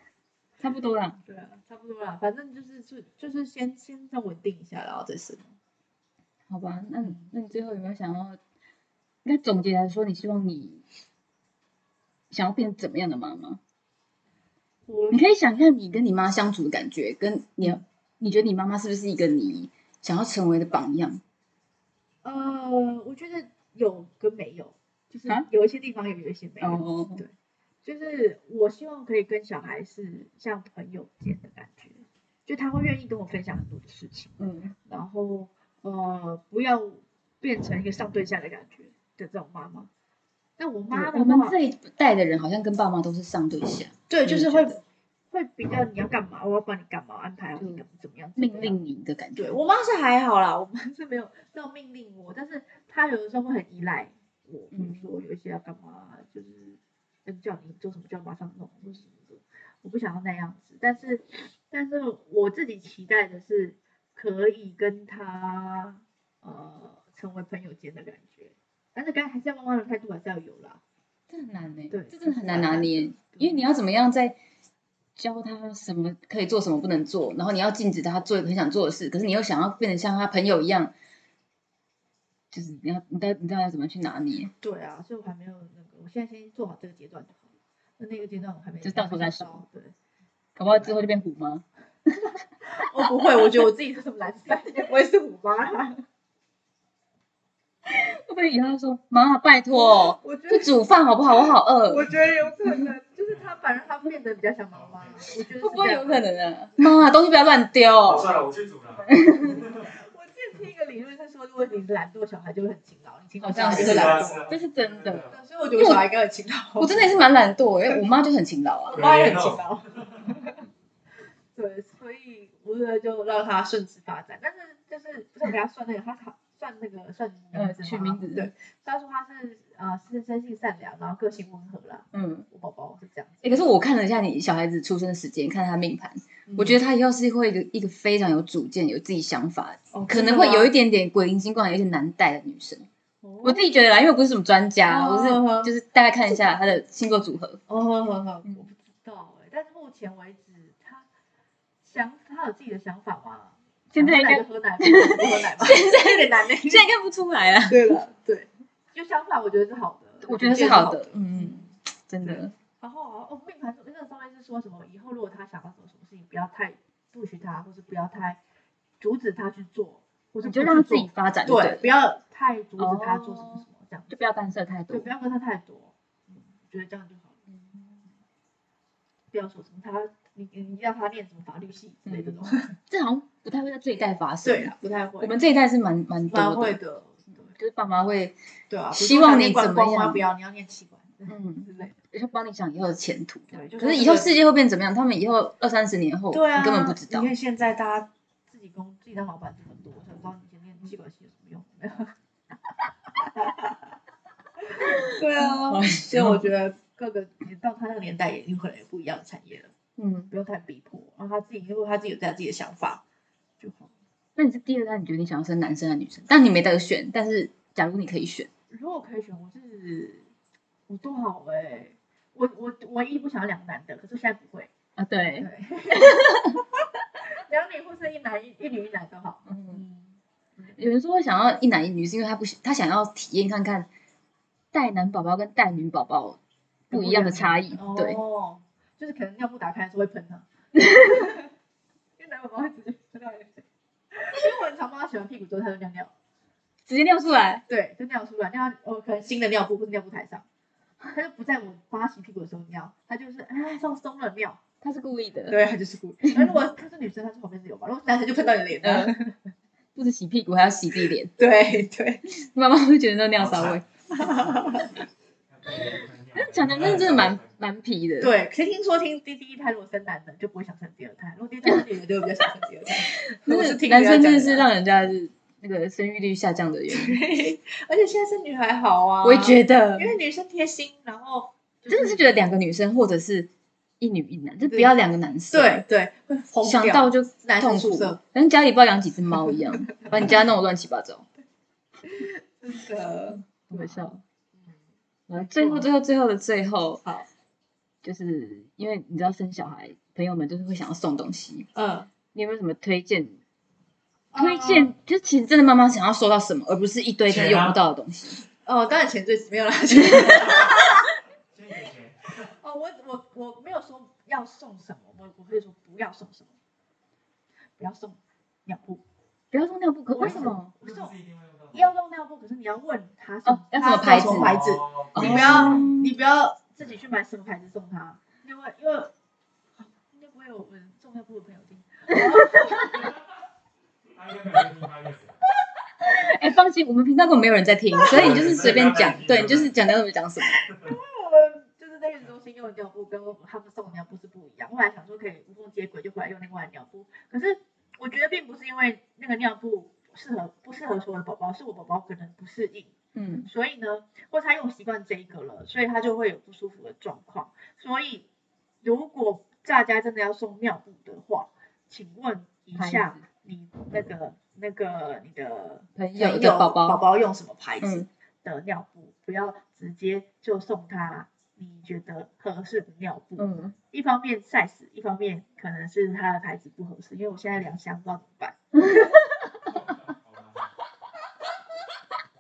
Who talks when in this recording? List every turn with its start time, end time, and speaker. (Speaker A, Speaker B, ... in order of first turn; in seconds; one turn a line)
Speaker A: 0.6-1.2
Speaker B: 1.3-5.5
Speaker A: 6.5-8.4
Speaker B: 7.0-7.3
Speaker A: 9.2-10.8
Speaker A: 12.3-13.6
Speaker B: 14.9-15.3
Speaker A: 15.1-21.2
Speaker B: 22.2-27.3
Speaker A: 26.6-27.2
Speaker B: 27.8-39.9
Speaker A: 34.4-34.8
Speaker B: 40.6-41.6
Speaker A: 40.9-44.8
Speaker B: 44.1-48.8
Speaker A: 47.6-47.8
Speaker A: 48.4-49.6
Speaker B: 49.4-70.8
Speaker A: 54.7-55.1
Speaker A: 71.3-74.4
Speaker B: 71.9-73.6
Speaker A: 75.2-80.9
Speaker A: 82.5-84.5
Speaker B: 84.6-90.0
Speaker A: 88.8-89.7
Speaker A: 90.6-92.2
Speaker B: 90.7-91.0
Speaker B: 92.2-96.0
Speaker A: 93.0-93.7
Speaker A: 97.9-102.1
Speaker B: 99.7-100.7
Speaker B: 101.3-106.2
Speaker C: 102.0-102.5
Speaker C: 104.7-105.3
Speaker A: 105.6-108.4
Speaker C: 108.0-109.9
Speaker A: 109.1-109.6
Speaker B: 109.6-114.5
Speaker A: 113.4-116.1
Speaker C: 113.7-115.4
Speaker B: 115.3-117.2
Speaker A: 116.8-119.0
Speaker B: 118.9-120.6
Speaker C: 118.9-120.0
Speaker B: 121.5-133.6
Speaker A: 127.5-128.5
Speaker A: 132.1-132.5
Speaker A: 133.4-142.9
Speaker B: 136.5-136.8
Speaker B: 139.9-140.7
Speaker B: 143.2-143.7
Speaker A: 143.4-147.6
Speaker B: 144.9-145.7
Speaker B: 147.7-151.1
Speaker B: 151.8-156.9
Speaker A: 153.9-158.0
Speaker B: 157.7-168.4
Speaker A: 160.2-162.5
Speaker B: 169.0-174.2
Speaker A: 170.4-171.9
Speaker A: 172.8-175.1
Speaker B: 174.9-177.4
Speaker A: 177.5-178.0
Speaker B: 179.3-182.8
Speaker A: 182.1-186.8
Speaker B: 184.4-185.4
Speaker B: 186.3-187.5
Speaker A: 187.5-188.4
Speaker B: 188.7-191.9
Speaker A: 188.9-190.2
Speaker A: 191.3-197.3
Speaker B: 193.5-194.4
Speaker B: 196.3-202.2
Speaker B: 203.2-203.9
Speaker B: 204.6-209.7
Speaker A: 204.8-206.4
Speaker A: 210.0-210.3
Speaker B: 210.3-213.0
Speaker B: 213.6-213.9
Speaker A: 214.4-218.5
Speaker B: 218.7-220.3
Speaker B: 220.9-224.7
Speaker A: 225.0-226.6
Speaker B: 225.4-230.8
Speaker A: 229.5-229.8
Speaker A: 230.7-233.9
Speaker A: 234.7-236.4
Speaker A: 236.9-238.2
Speaker B: 236.9-241.5
Speaker A: 240.8-241.2
Speaker B: 242.2-246.1
Speaker A: 246.9-247.6
Speaker B: 247.7-250.4
Speaker B: 251.1-254.6
Speaker A: 254.8-255.6
Speaker B: 255.5-259.5
Speaker A: 256.2-256.6
Speaker A: 258.8-259.1
Speaker A: 259.9-261.4
Speaker B: 261.4-262.2
Speaker A: 262.3-263.8
Speaker C: 263.4-267.6
Speaker B: 264.1-265.0
Speaker A: 265.7-268.4
Speaker B: 268.2-274.7
Speaker A: 273.1-277.2
Speaker B: 276.9-282.5
Speaker A: 279.2-280.1
Speaker A: 281.9-285.9
Speaker B: 284.7-284.9
Speaker B: 285.5-288.2
Speaker A: 286.6-291.3
Speaker B: 289.8-290.4
Speaker B: 292.0-294.1
Speaker A: 293.3-294.2
Speaker A: 295.3-297.0
Speaker B: 295.3-295.9
Speaker A: 298.0-301.7
Speaker B: 301.8-302.1
Speaker A: 302.3-303.4
Speaker B: 304.3-304.9
Speaker A: 304.4-308.4
Speaker C: 307.3-307.8
Speaker B: 308.6-311.1
Speaker A: 310.0-310.4
Speaker C: 310.4-312.4
Speaker B: 312.4-316.5
Speaker B: 317.8-319.0
Speaker A: 319.5-320.7
Speaker B: 320.1-321.1
Speaker C: 320.8-321.9
Speaker B: 321.7-329.1
Speaker A: 323.5-324.6
Speaker C: 324.1-325.9
Speaker A: 325.1-326.1
Speaker B: 329.8-333.1
Speaker A: 332.1-333.1
Speaker C: 334.1-335.4
Speaker A: 336.0-340.6
Speaker B: 338.0-338.4
Speaker C: 338.1-339.7
Speaker B: 340.8-358.3
Speaker A: 353.1-353.5
Speaker B: 358.8-379.2
Speaker A: 362.8-363.2
Speaker A: 366.0-367.0
Speaker A: 367.8-368.1
Speaker A: 373.4-373.8
Speaker A: 378.8-379.2
Speaker C: 379.7-380.7